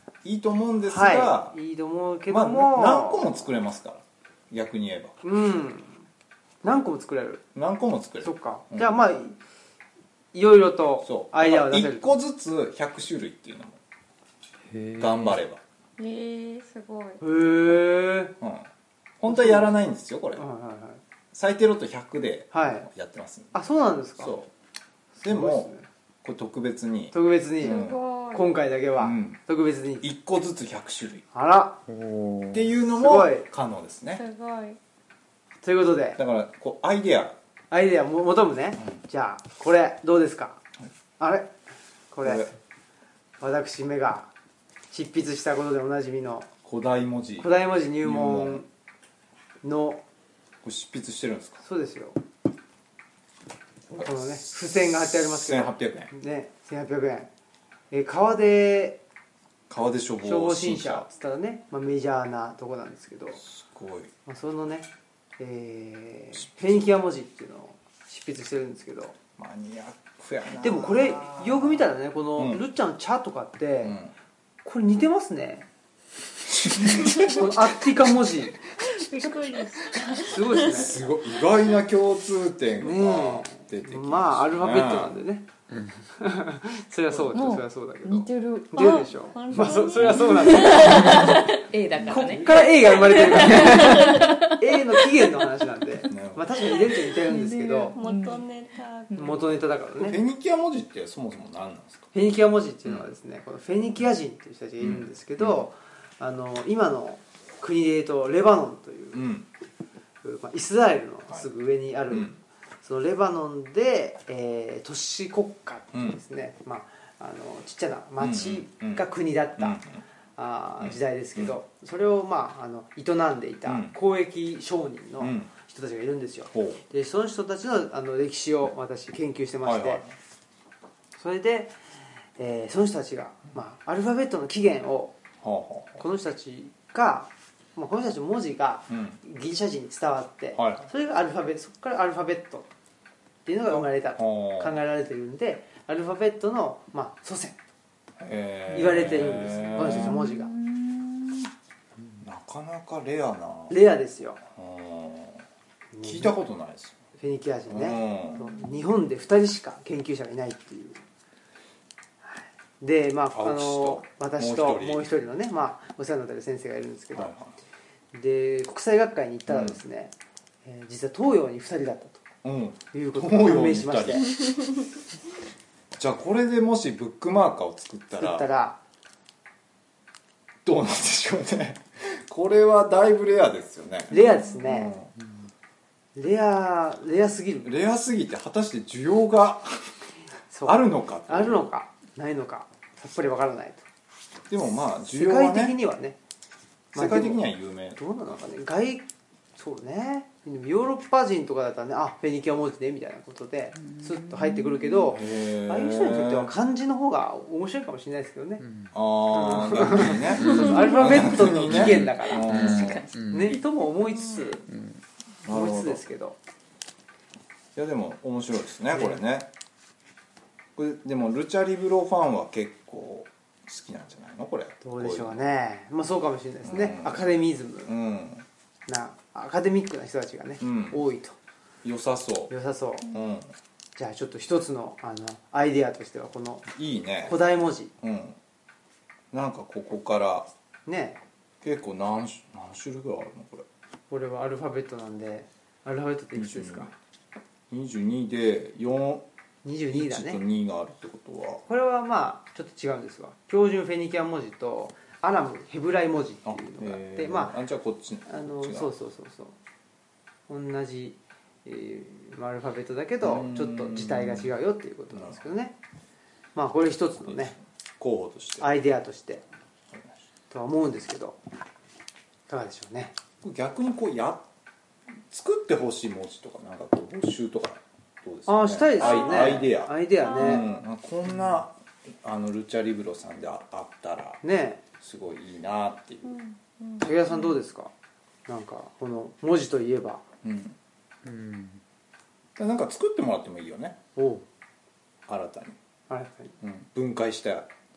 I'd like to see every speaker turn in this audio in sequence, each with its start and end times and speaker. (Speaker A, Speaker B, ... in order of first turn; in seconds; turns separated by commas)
Speaker A: 0.2-1.6, Speaker B: 0.9-3.5, Speaker A: 2.3-5.2, Speaker B: 5.2-6.0, Speaker B: 6.6-7.4, Speaker A: 7.5-8.9, Speaker B: 8.2-9.4, Speaker B: 10.3-12.1, Speaker A: 11.0-13.8, Speaker C: 14.7-15.3, Speaker A: 15.0-15.6, Speaker D: 16.0-17.2, Speaker B: 17.2-18.4, Speaker A: 18.4-18.7, Speaker A: 19.2-20.5, Speaker B: 19.2-19.8, Speaker B: 20.4-21.0, Speaker A: 21.3-23.6, Speaker B: 22.5-22.9, Speaker B: 23.5-24.3, Speaker A: 24.2-24.5, Speaker B: 25.1-25.9, Speaker A: 25.2-25.7, Speaker A: 26.2-28.0, Speaker B: 27.1-30.1, Speaker D: 27.6-28.6, Speaker A: 29.0-29.4, Speaker A: 30.0-31.2, Speaker B: 31.3-31.8, Speaker C: 31.9-32.6, Speaker A: 32.5-34.2, Speaker B: 32.9-33.5, Speaker D: 34.1-34.8, Speaker B: 35.6-36.2, Speaker A: 36.2-37.4, Speaker B: 37.7-40.6, Speaker B: 41.2-41.5, Speaker B: 42.1-42.5, Speaker A: 42.2-42.5, Speaker B: 43.4-44.3, Speaker B: 44.9-46.5, Speaker A: 46.6-48.6, Speaker B: 47.4-48.7, Speaker B: 49.6-50.0, Speaker A: 50.6-51.6, Speaker B: 51.6-52.2, Speaker A: 53.9-56.1, Speaker B: 54.0-57.3, Speaker B: 57.9-59.0, Speaker A: 59.7-61.1, Speaker B: 60.2-63.4, Speaker A: 63.4-64.1, Speaker B: 64.3-69.2, Speaker A: 66.3-66.8, Speaker A: 69.4-72.6, Speaker B: 70.6-74.0, Speaker A: 73.8-74.1, Speaker B: 74.6-75.7, Speaker A: 76.5-77.6, Speaker B: 76.9-78.6, Speaker D: 78.8-81.1, Speaker B: 80.2-80.9, Speaker A: 80.5-85.2, Speaker B: 82.8-85.5, Speaker B: 86.1-91.5, Speaker E: 87.3-89.0, Speaker D: 88.7-91.6, Speaker E: 90.4-94.6, Speaker B: 92.0-98.0, Speaker D: 92.9-94.4, Speaker A: 96.1-96.5, Speaker E: 97.2-98.5, Speaker D: 97.9-99.6, Speaker E: 99.1-99.4, Speaker B: 99.2-100.2, Speaker A: 100.0-102.1, Speaker B: 102.1-109.3, Speaker A: 102.8-103.1, Speaker A: 104.8-105.6, Speaker A: 109.1-109.5, Speaker B: 110.2-119.8, Speaker A: 112.1-112.4, Speaker A: 115.9-116.2, Speaker A: 118.2-119.0, Speaker A: 119.6-120.0, Speaker B: 120.4-130.0, Speaker A: 120.8-121.6, Speaker A: 123.7-124.0, Speaker A: 125.2-125.5, Speaker A: 126.5-126.8, Speaker A: 129.6-130.1, Speaker B: 131.2-131.8, Speaker B: 132.4-135.2, Speaker A: 135.4-136.0, Speaker B: 136.0-142.7, Speaker A: 138.9-139.2, Speaker A: 140.5-140.9, Speaker B: 143.4-147.6, Speaker A: 143.7-144.8, Speaker A: 148.2-150.2, Speaker B: 148.7-150.5, Speaker E: 149.8-151.5, Speaker A: 152.2-153.8, Speaker B: 153.7-154.4, Speaker A: 154.6-155.4, Speaker B: 155.9-156.4, Speaker A: 156.0-157.0, Speaker B: 157.2-161.0, Speaker A: 157.7-158.4, Speaker B: 162.2-167.3, Speaker A: 163.3-165.1, Speaker A: 167.1-167.6, Speaker B: 168.1-170.1, Speaker A: 169.5-169.8, Speaker B: 170.6-172.3, Speaker A: 172.4-174.3, Speaker B: 172.9-174.4, Speaker A: 175.9-178.5, Speaker B: 178.2-178.8, Speaker A: 180.6-185.1, Speaker B: 184.1-185.0, Speaker B: 186.1-187.7, Speaker A: 187.6-190.0, Speaker B: 190.5-193.8, Speaker A: 190.6-191.7, Speaker A: 194.5-195.8, Speaker B: 195.1-196.2, Speaker B: 196.9-197.4, Speaker A: 196.9-198.0, Speaker B: 198.0-208.6, Speaker E: 204.0-205.1, Speaker A: 205.1-206.5, Speaker C: 208.6-208.9, Speaker A: 208.9-213.0, Speaker B: 209.3-214.7, Speaker C: 210.4-210.8, Speaker C: 211.4-213.6, Speaker E: 212.8-213.1, Speaker D: 214.1-214.5, Speaker C: 214.7-215.0, Speaker A: 215.4-216.0, Speaker B: 215.5-216.4, Speaker A: 217.8-219.5, Speaker B: 218.9-219.2, Speaker A: 220.8-225.4, Speaker B: 224.8-227.9, Speaker A: 226.6-227.2, Speaker A: 227.9-228.4, Speaker B: 228.9-231.4, Speaker A: 230.6-231.0, Speaker A: 231.8-232.5, Speaker B: 232.5-233.1, Speaker A: 233.0-233.5, Speaker B: 234.0-236.7, Speaker A: 236.8-237.4, Speaker B: 237.2-237.9, Speaker A: 238.0-238.4, Speaker A: 239.3-240.5, Speaker B: 240.9-241.2, Speaker A: 241.6-243.7, Speaker B: 244.1-246.9, Speaker A: 246.3-246.9, Speaker A: 247.7-249.3, Speaker B: 249.6-250.4, Speaker A: 249.9-251.6, Speaker B: 251.7-257.6, Speaker A: 256.5-258.9, Speaker B: 258.3-259.6, Speaker B: 260.5-265.8, Speaker A: 263.2-264.5, Speaker A: 265.1-265.4, Speaker B: 266.6-267.6, Speaker A: 267.2-268.7, Speaker B: 268.6-269.4, Speaker A: 269.9-270.2, Speaker B: 270.5-271.4, Speaker B: 272.5-273.1, Speaker A: 273.4-274.5, Speaker A: 275.3-284.4, Speaker B: 278.5-280.6, Speaker D: 279.0-279.6, Speaker D: 280.2-280.7, Speaker B: 284.4-284.8, Speaker A: 285.0-286.4, Speaker D: 286.2-287.5, Speaker B: 287.0-287.9, Speaker B: 288.5-290.2, Speaker A: 290.4-290.8, Speaker C: 291.2-291.8, Speaker A: 292.6-294.0, Speaker B: 294.1-294.5, Speaker A: 295.3-295.8, Speaker B: 296.1-296.5, Speaker A: 296.6-297.7